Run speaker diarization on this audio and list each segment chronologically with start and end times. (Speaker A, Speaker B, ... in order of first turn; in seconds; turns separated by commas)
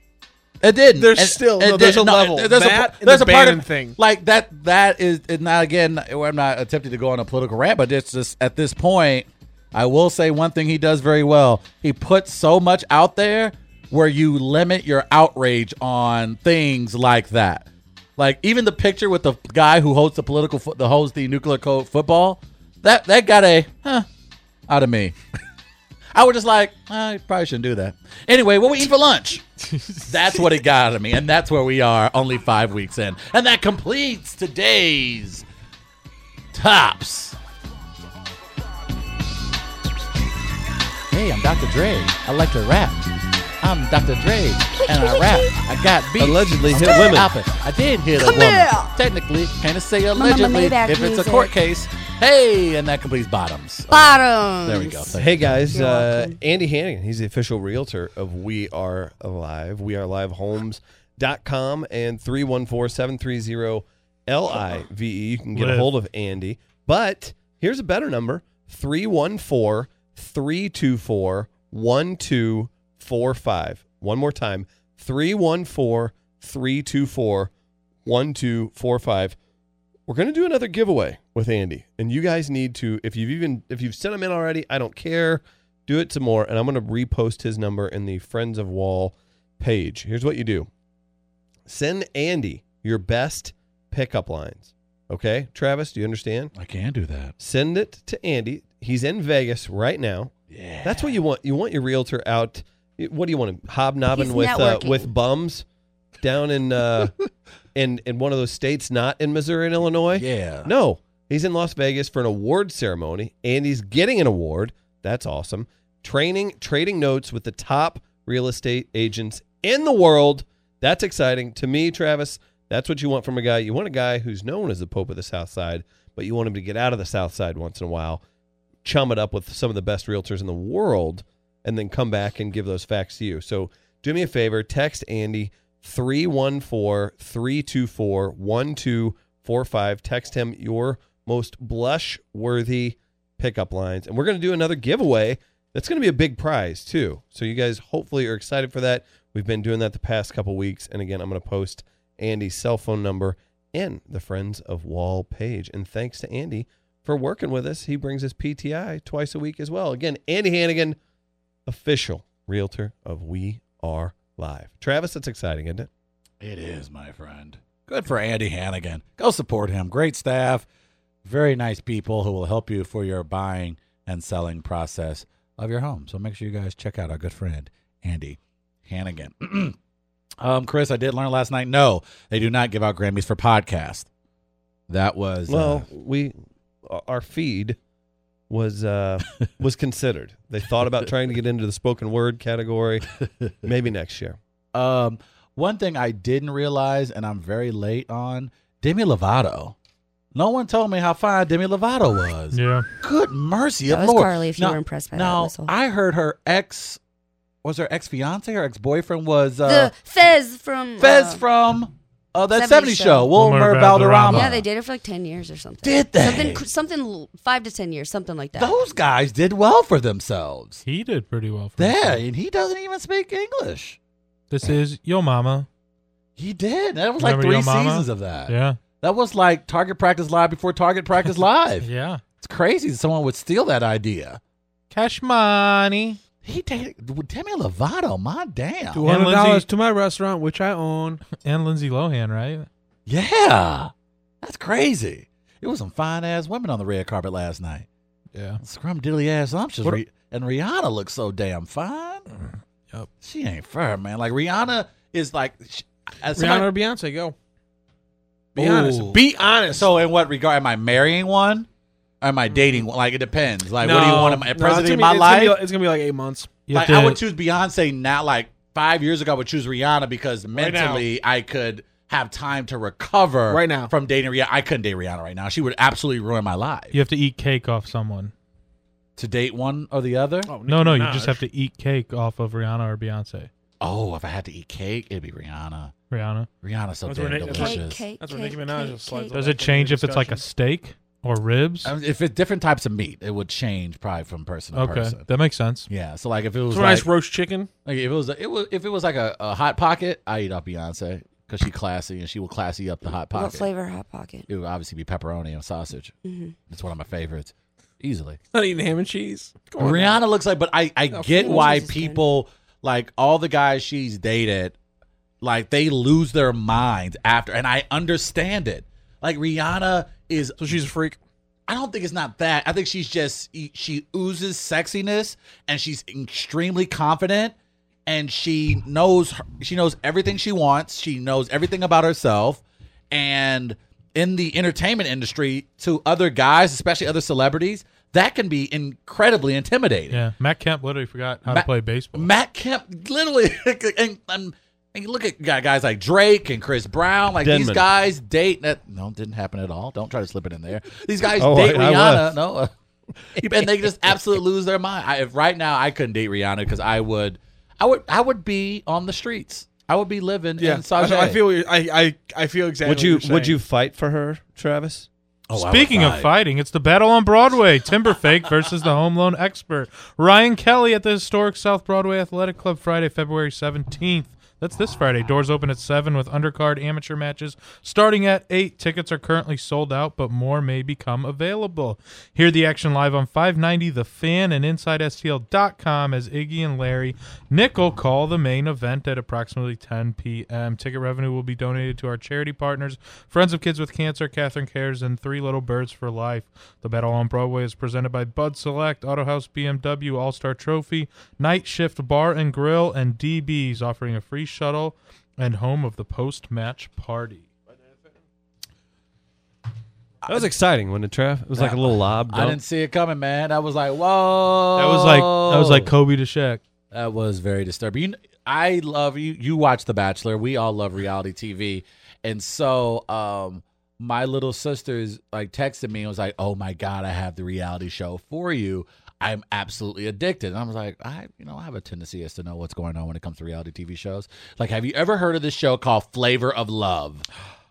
Speaker A: 0.6-24.1, Speaker B: 0.9-4.0, Speaker A: 24.7-25.1, Speaker A: 26.1-29.4, Speaker A: 30.0-35.4, Speaker A: 36.5-37.4, Speaker A: 41.1-43.0, Speaker A: 43.6-55.6, Speaker C: 44.8-45.5, Speaker D: 46.2-47.3, Speaker C: 48.2-48.9, Speaker C: 50.1-51.5, Speaker C: 53.9-55.1, Speaker D: 55.1-77.5, Speaker C: 55.7-56.4, Speaker E: 65.5-65.9, Speaker D: 78.0-79.4, Speaker D: 80.1-90.7, Speaker D: 91.7-96.5, Speaker A: 96.5-97.3, Speaker D: 97.4-105.7, Speaker A: 100.5-101.2, Speaker C: 104.1-105.1, Speaker D: 106.2-107.1, Speaker D: 107.7-128.2, Speaker A: 110.1-110.7, Speaker D: 128.8-161.0, Speaker D: 161.7-165.9, Speaker A: 166.4-170.7, Speaker A: 171.2-179.8, Speaker A: 180.4-184.1, Speaker A: 184.9-185.8, Speaker D: 185.5-187.8, Speaker D: 188.5-193.1, Speaker D: 193.6-194.4, Speaker A: 194.7-199.7, Speaker A: 200.3-207.0, Speaker E: 202.5-202.8, Speaker C: 203.9-205.7, Speaker A: 207.6-209.9, Speaker C: 209.6-211.4, Speaker A: 211.0-214.5, Speaker C: 212.5-213.3, Speaker E: 213.3-214.6, Speaker C: 214.3-218.8, Speaker A: 215.8-216.6, Speaker A: 218.6-220.8, Speaker E: 220.8-222.2, Speaker A: 221.8-224.0, Speaker E: 224.5-225.7, Speaker A: 226.4-231.9, Speaker E: 227.2-228.8, Speaker E: 231.8-232.2, Speaker A: 232.4-234.4, Speaker E: 234.9-236.2, Speaker A: 236.4-239.1, Speaker B: 238.9-241.2, Speaker E: 239.0-239.7, Speaker E: 241.3-242.7, Speaker A: 243.1-247.9, Speaker A: 248.6-252.2, Speaker A: 253.2-256.7, Speaker B: 256.3-257.3, Speaker B: 258.6-259.9, Speaker A: 258.6-261.7, Speaker A: 262.2-265.6, Speaker B: 262.5-262.8, Speaker B: 263.8-266.6, Speaker E: 266.7-267.2, Speaker A: 266.7-277.0, Speaker B: 270.5-271.0, Speaker B: 273.5-273.9, Speaker E: 276.9-278.3, Speaker A: 279.2-280.5, Speaker B: 280.4-281.4, Speaker E: 280.7-283.5, Speaker A: 283.8-285.9, Speaker E: 286.1-286.5, Speaker A: 286.6-288.0, Speaker B: 287.0-290.4, Speaker C: 287.5-289.4, Speaker E: 289.3-291.9, Speaker A: 291.8-295.2, Speaker E: 294.7-295.9, Speaker A: 295.9-297.1, Speaker B: 296.7-297.7, Speaker A: 297.8-303.7, Speaker C: 303.3-304.5, Speaker A: 304.5-306.1, Speaker C: 306.2-306.5, Speaker A: 306.7-308.4, Speaker B: 308.5-310.2, Speaker A: 309.8-314.8, Speaker B: 311.1-311.8, Speaker C: 311.3-312.2, Speaker A: 315.4-320.6, Speaker B: 320.6-321.2, Speaker A: 321.7-327.5, Speaker A: 328.1-340.2, Speaker E: 340.1-342.3, Speaker A: 341.5-352.7, Speaker D: 347.4-347.8, Speaker D: 351.4-352.4, Speaker A: 353.3-361.4, Speaker B: 360.6-363.6, Speaker D: 362.8-365.1, Speaker A: 365.5-366.3, Speaker E: 365.5-407.5, Speaker D: 410.3-412.6, Speaker A: 411.5-415.9, Speaker E: 414.8-416.6, Speaker A: 416.9-437.3